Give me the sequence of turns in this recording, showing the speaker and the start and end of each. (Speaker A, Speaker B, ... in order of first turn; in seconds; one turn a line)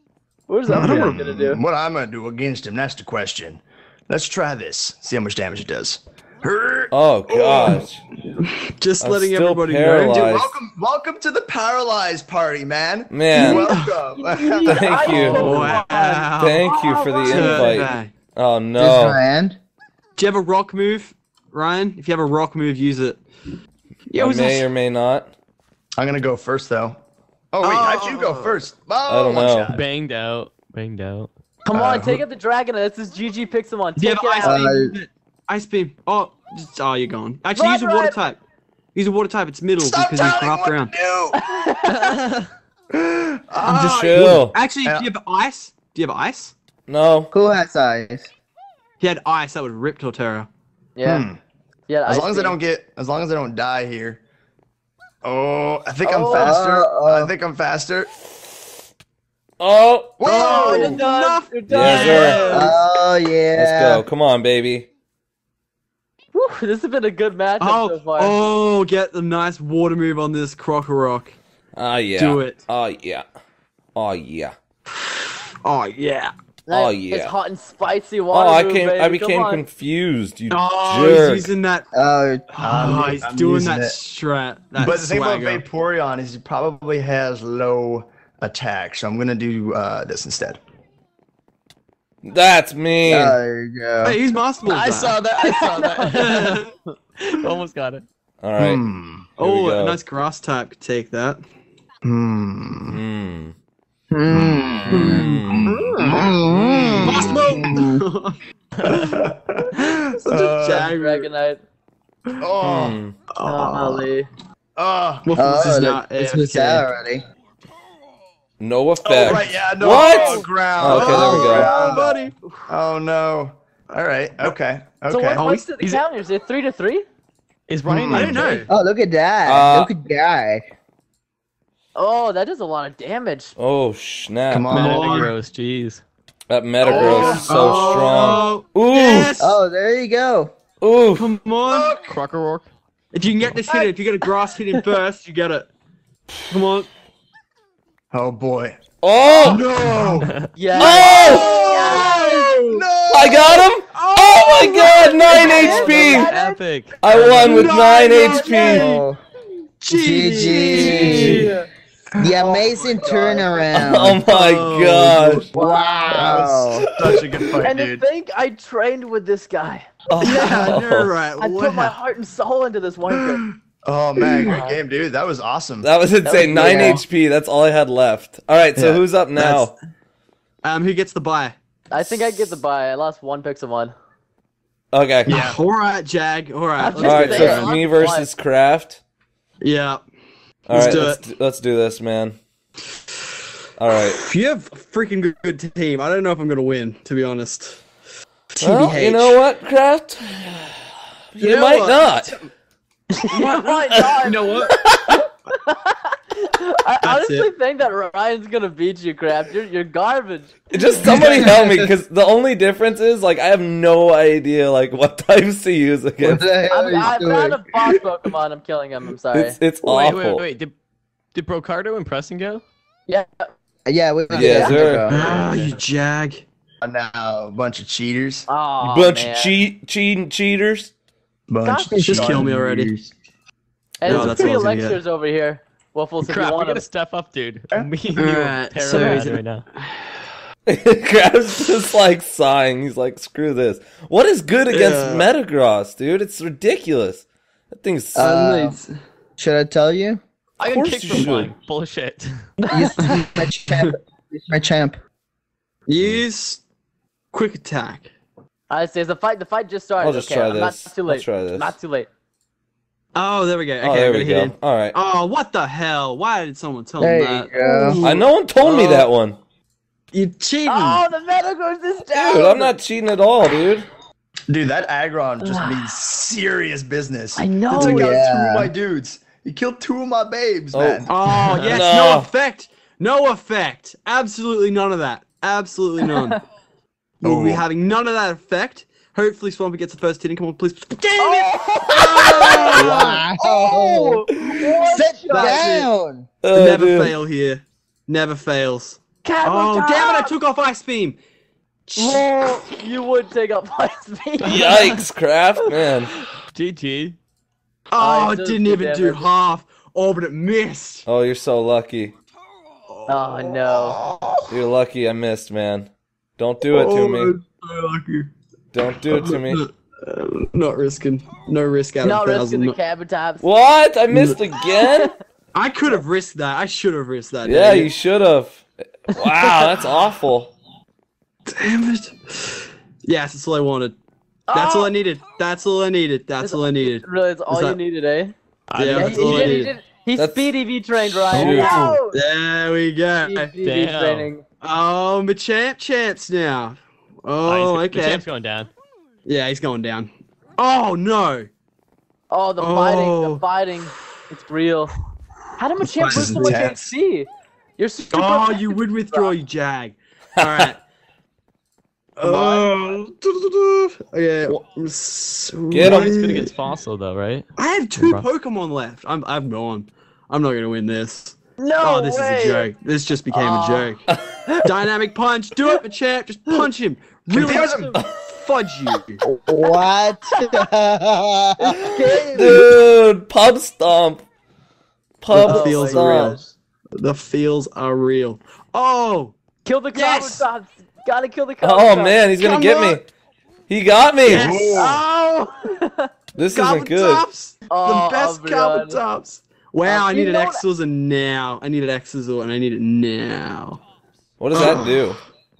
Speaker A: 0.5-1.6
Speaker B: 0.7-7.7
Speaker C: 0.8-1.1
Speaker D: 6.9-8.0
Speaker C: 8.4-10.3
Speaker D: 9.0-10.6
Speaker B: 10.1-15.8
Speaker D: 13.1-13.7
Speaker C: 13.3-14.0
Speaker A: 14.2-17.9
Speaker D: 14.6-15.8
Speaker C: 15.1-16.6
Speaker D: 16.4-19.2
Speaker C: 17.2-18.1
Speaker E: 18.8-19.6
Speaker C: 20.2-23.2
Speaker C: 24.1-24.6
Speaker D: 24.1-25.3
Speaker B: 26.0-27.0
Speaker B: 27.5-29.8
Speaker C: 27.6-28.6
Speaker D: 29.1-29.7
Speaker F: 29.7-31.3
Speaker A: 31.6-34.7
Speaker B: 31.7-32.2
Speaker C: 34.0-38.4
Speaker E: 34.4-34.9
Speaker A: 37.5-38.2
Speaker C: 38.9-40.9
Speaker B: 39.8-41.4
Speaker A: 41.3-42.2
Speaker F: 41.9-42.5
Speaker B: 42.9-45.1
Speaker C: 43.6-46.5
Speaker D: 43.7-44.5
Speaker D: 46.9-47.3
Speaker E: 47.3-48.3
Speaker C: 49.0-50.5
Speaker A: 51.0-51.3
Speaker B: 51.0-51.4
Speaker A: 51.9-52.6
Speaker B: 52.1-54.2
Speaker B: 55.2-58.1
Speaker A: 56.0-56.6
Speaker E: 56.3-57.3
Speaker D: 59.6-60.2
Speaker B: 60.2-61.0
Speaker C: 60.2-62.8
Speaker A: 60.3-62.8
Speaker E: 60.6-60.9
Speaker D: 61.7-62.5
Speaker E: 62.5-64.0
Speaker D: 63.5-64.9
Speaker A: 66.3-68.4
Speaker C: 67.6-71.3
Speaker D: 71.8-73.2
Speaker C: 72.2-72.6
Speaker D: 73.9-74.5
Speaker C: 74.9-76.3
Speaker A: 76.7-79.6
Speaker D: 76.7-77.3
Speaker D: 78.3-81.5
Speaker C: 80.5-81.9
Speaker E: 81.9-83.3
Speaker C: 82.5-85.6
Speaker B: 82.6-84.0
Speaker B: 84.8-90.6
Speaker D: 92.2-93.4
Speaker E: 93.0-94.2
Speaker C: 94.0-95.2
Speaker F: 94.6-96.6
Speaker A: 95.4-96.4
Speaker C: 96.0-96.7
Speaker F: 97.2-98.0
Speaker D: 98.4-98.8
Speaker B: 98.6-99.3
Speaker C: 99.4-101.4
Speaker D: 99.4-100.0
Speaker B: 102.0-103.0
Speaker D: 102.8-103.5
Speaker E: 104.1-108.0
Speaker B: 104.3-107.7
Speaker D: 104.9-105.7
Speaker C: 104.9-106.2
Speaker C: 107.0-108.4
Speaker B: 108.8-110.9
Speaker C: 110.1-111.3
Speaker A: 110.7-111.6
Speaker B: 112.4-113.0
Speaker D: 112.6-113.1
Speaker C: 113.3-114.0
Speaker A: 113.4-114.3
Speaker B: 114.8-115.3
Speaker C: 115.2-116.9
Speaker E: 115.3-117.2
Speaker D: 118.6-121.7
Speaker B: 119.0-125.6
Speaker A: 119.9-120.5
Speaker C: 120.0-122.3
Speaker E: 121.0-122.2
Speaker A: 125.1-127.0
Speaker F: 127.7-128.6
Speaker B: 127.9-128.7
Speaker C: 128.1-128.7
Speaker E: 128.7-130.7
Speaker D: 129.4-129.9
Speaker A: 131.9-133.5
Speaker D: 133.6-134.9
Speaker B: 134.5-135.3
Speaker F: 134.7-136.0
Speaker C: 134.9-135.2
Speaker D: 136.5-139.3
Speaker C: 136.8-139.6
Speaker B: 136.9-138.3
Speaker A: 137.0-137.4
Speaker A: 138.2-138.4
Speaker E: 139.4-140.5
Speaker D: 140.8-141.3
Speaker C: 141.2-141.9
Speaker B: 141.7-142.2
Speaker F: 142.0-142.7
Speaker C: 143.1-145.7
Speaker C: 146.5-146.9
Speaker B: 148.1-148.8
Speaker D: 149.0-149.7
Speaker A: 149.3-149.6
Speaker B: 149.4-153.7
Speaker C: 149.4-150.3
Speaker A: 150.5-152.5
Speaker D: 150.8-151.5
Speaker C: 150.8-152.8
Speaker D: 153.1-156.3
Speaker C: 153.9-155.8
Speaker A: 154.8-156.6
Speaker F: 155.7-157.0
Speaker D: 157.0-158.9
Speaker C: 157.1-159.0
Speaker A: 157.7-158.8
Speaker E: 158.6-159.2
Speaker C: 159.8-161.5
Speaker E: 159.9-161.5
Speaker A: 161.0-161.7
Speaker E: 162.2-164.2
Speaker B: 162.2-163.7
Speaker C: 162.4-163.4
Speaker D: 163.7-165.5
Speaker C: 164.2-165.3
Speaker B: 165.0-165.5
Speaker E: 165.5-166.9
Speaker A: 165.5-166.4
Speaker B: 166.1-168.0
Speaker D: 167.1-167.6
Speaker A: 167.6-169.9
Speaker D: 170.1-171.1
Speaker C: 170.2-171.9
Speaker A: 171.4-173.4
Speaker B: 173.2-175.9
Speaker A: 174.5-174.7
Speaker D: 175.8-179.7
Speaker A: 176.2-177.0
Speaker C: 176.7-176.9
Speaker E: 176.7-177.0
Speaker B: 178.7-179.0
Speaker C: 179.4-179.7
Speaker C: 180.6-182.5
Speaker A: 181.9-183.9
Speaker D: 184.9-185.5
Speaker C: 185.2-187.7
Speaker A: 186.8-188.3
Speaker D: 187.0-189.0
Speaker C: 189.6-190.0
Speaker D: 190.7-192.4
Speaker C: 190.7-191.2
Speaker D: 193.8-194.2
Speaker C: 193.9-197.8
Speaker C: 198.5-199.4
Speaker D: 198.6-202.4
Speaker C: 201.4-202.5
Speaker A: 203.2-210.5
Speaker C: 203.2-204.9
Speaker D: 203.9-204.9
Speaker C: 207.0-207.5
Speaker D: 210.7-216.5
Speaker C: 211.1-211.5
Speaker E: 216.2-217.6
Speaker A: 216.7-219.6
Speaker D: 219.3-220.4
Speaker F: 219.8-220.7
Speaker F: 221.3-222.6
Speaker A: 223.1-223.5
Speaker E: 223.8-225.2
Speaker D: 224.3-225.1
Speaker A: 224.4-224.7
Speaker C: 225.1-226.4
Speaker B: 225.1-225.7
Speaker B: 226.8-228.5
Speaker A: 228.5-229.5
Speaker D: 228.8-230.9
Speaker B: 231.5-233.1
Speaker A: 231.6-232.4
Speaker C: 232.0-232.9
Speaker A: 234.0-236.8
Speaker C: 234.0-235.0
Speaker B: 234.1-234.5
Speaker F: 236.2-239.7
Speaker C: 238.2-240.1
Speaker A: 238.9-239.2
Speaker D: 240.7-248.5
Speaker C: 244.7-245.3
Speaker E: 248.1-248.8
Speaker C: 248.5-248.8
Speaker E: 249.4-250.2
Speaker F: 250.6-252.4
Speaker D: 250.7-251.5
Speaker A: 252.6-253.0
Speaker E: 252.7-255.0
Speaker C: 253.0-253.9
Speaker C: 255.9-256.6
Speaker C: 257.3-258.1
Speaker A: 258.7-262.1
Speaker D: 260.0-261.7
Speaker C: 263.1-269.1
Speaker D: 263.8-264.9
Speaker E: 267.0-268.0
Speaker D: 268.0-269.4
Speaker C: 270.1-271.0
Speaker A: 270.6-272.7
Speaker D: 272.1-273.9
Speaker B: 274.5-281.1
Speaker A: 275.4-275.9
Speaker A: 277.4-278.1
Speaker E: 277.8-278.7
Speaker D: 280.7-282.3
Speaker C: 281.1-286.4
Speaker A: 286.1-286.4
Speaker C: 287.2-293.3
Speaker B: 287.2-287.6
Speaker A: 291.2-295.8
Speaker E: 292.7-294.3
Speaker E: 294.8-296.3
Speaker C: 295.3-295.9
Speaker D: 296.4-297.1
Speaker C: 296.5-301.2
Speaker A: 299.2-300.3
Speaker C: 301.9-302.7
Speaker A: 301.9-304.8
Speaker F: 304.4-304.9
Speaker D: 304.4-306.1
Speaker F: 306.5-307.2
Speaker C: 307.9-311.1
Speaker A: 308.0-309.3
Speaker D: 311.1-312.1
Speaker C: 312.9-314.4
Speaker A: 313.1-314.0
Speaker D: 314.5-317.3
Speaker C: 316.6-318.3
Speaker D: 318.7-319.6
Speaker C: 319.0-322.8
Speaker A: 322.0-323.4
Speaker D: 323.4-325.1
Speaker C: 324.1-324.4
Speaker A: 324.8-325.1
Speaker C: 325.5-327.9
Speaker D: 327.4-330.5
Speaker A: 329.1-329.8
Speaker C: 331.5-333.9
Speaker A: 334.5-334.9
Speaker C: 334.5-337.8
Speaker A: 336.4-338.3
Speaker F: 338.7-339.7
Speaker C: 338.7-339.7
Speaker A: 338.9-342.2
Speaker D: 340.1-340.5
Speaker D: 341.3-341.8
Speaker C: 341.3-343.5
Speaker B: 341.4-341.8
Speaker A: 343.2-344.4
Speaker F: 343.6-344.3
Speaker C: 344.6-348.2
Speaker F: 347.4-348.7
Speaker C: 349.2-351.5
Speaker A: 352.3-354.9
Speaker C: 352.6-353.4
Speaker A: 355.6-359.3
Speaker C: 355.9-356.5
Speaker B: 356.0-356.9
Speaker C: 358.1-360.8
Speaker D: 360.4-360.7
Speaker C: 362.2-366.5
Speaker A: 362.2-362.7
Speaker D: 365.7-366.2
Speaker F: 365.8-368.3
Speaker C: 367.6-374.1
Speaker A: 371.6-372.7
Speaker C: 374.6-379.2
Speaker B: 377.3-378.0
Speaker A: 377.6-378.0
Speaker D: 377.9-378.2
Speaker E: 379.3-381.9
Speaker A: 380.3-380.6
Speaker A: 381.9-382.6
Speaker D: 382.3-384.2
Speaker D: 385.2-386.4
Speaker C: 385.3-386.4
Speaker A: 385.4-386.5
Speaker C: 386.9-389.4
Speaker A: 389.6-392.2
Speaker C: 389.9-390.4
Speaker D: 391.6-393.0
Speaker C: 392.4-393.0
Speaker D: 393.7-394.8
Speaker C: 394.2-395.5
Speaker B: 394.2-395.0
Speaker A: 394.7-395.0
Speaker A: 395.6-396.1
Speaker D: 396.4-397.2
Speaker C: 396.5-403.8
Speaker A: 397.7-399.0
Speaker A: 399.8-400.6
Speaker D: 404.4-405.2
Speaker C: 404.5-405.0